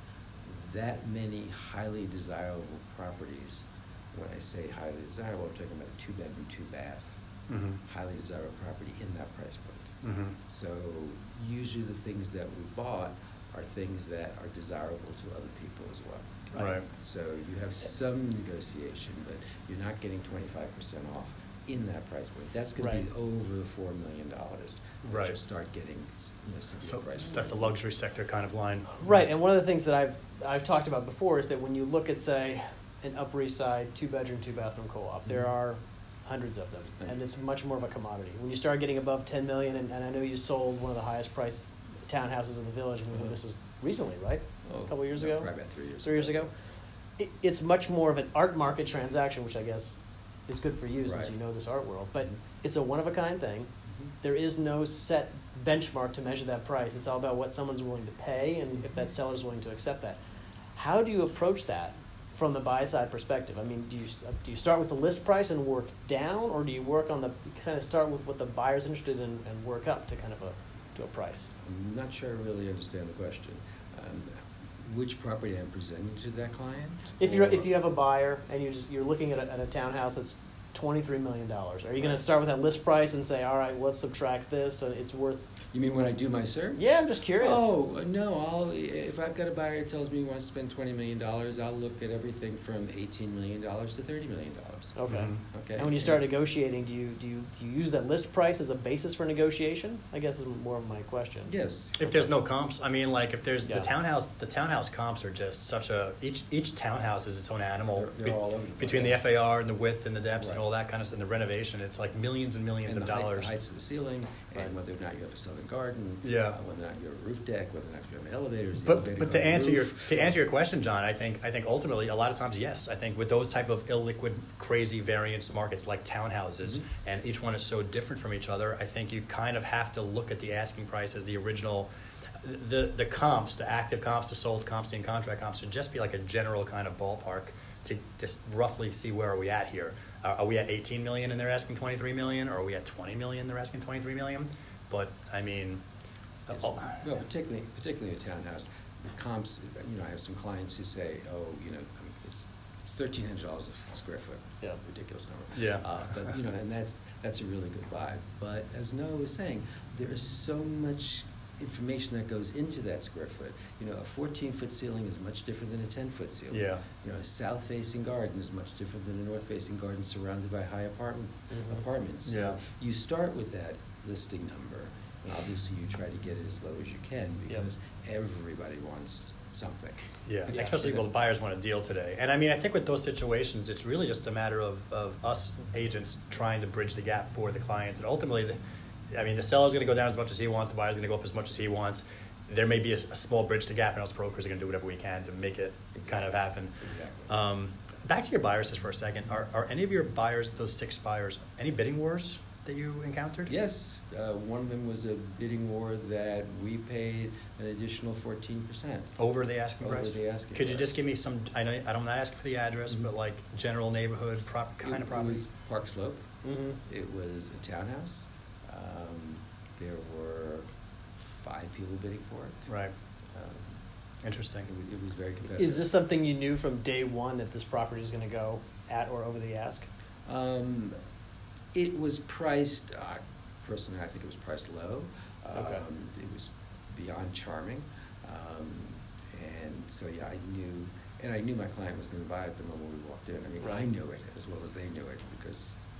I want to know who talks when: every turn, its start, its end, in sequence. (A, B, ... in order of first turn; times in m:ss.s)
0:00.4-0:07.2 A
0:07.5-0:07.8 B
0:07.8-0:27.6 A
0:10.0-0:10.4 B
0:16.5-0:16.8 B
0:22.8-0:23.0 C
0:25.0-0:25.3 B
0:26.8-0:29.0 B
0:29.0-0:45.5 C
0:44.6-0:46.5 A
0:46.0-0:46.5 C
0:47.2-0:53.7 C
0:51.0-0:51.3 A
0:54.2-1:00.2 C
1:00.8-1:11.5 C
1:11.6-1:17.7 A
1:17.2-1:25.5 C
1:25.7-1:34.9 A
1:26.8-1:27.7 C
1:35.0-1:41.5 C
1:35.1-1:35.4 B
1:35.5-1:36.2 A
1:41.5-1:42.0 A
1:42.0-1:53.5 B
1:47.9-1:49.2 A
1:50.4-1:50.6 A
1:52.8-2:00.3 A
1:56.2-1:56.6 B
1:58.8-2:25.8 B
2:26.5-2:27.0 B
2:26.5-3:01.0 A
2:35.5-2:35.8 B
2:46.5-2:46.8 B
2:51.5-2:51.8 C
2:52.2-2:52.6 B
3:00.2-3:08.6 B
3:09.1-3:23.5 B
3:16.0-3:16.2 A
3:16.8-3:17.3 A
3:23.5-3:29.1 A
3:29.2-3:35.4 B
3:29.8-3:31.0 A
3:34.8-3:36.3 A
3:36.4-3:36.8 C
3:36.8-3:42.7 A
3:42.7-3:42.9 B
3:43.3-3:43.8 A
3:44.2-3:44.7 B
3:44.7-3:45.9 A
3:45.6-3:49.8 C
3:50.2-3:51.0 A
3:51.7-4:05.8 A
3:55.5-3:55.8 C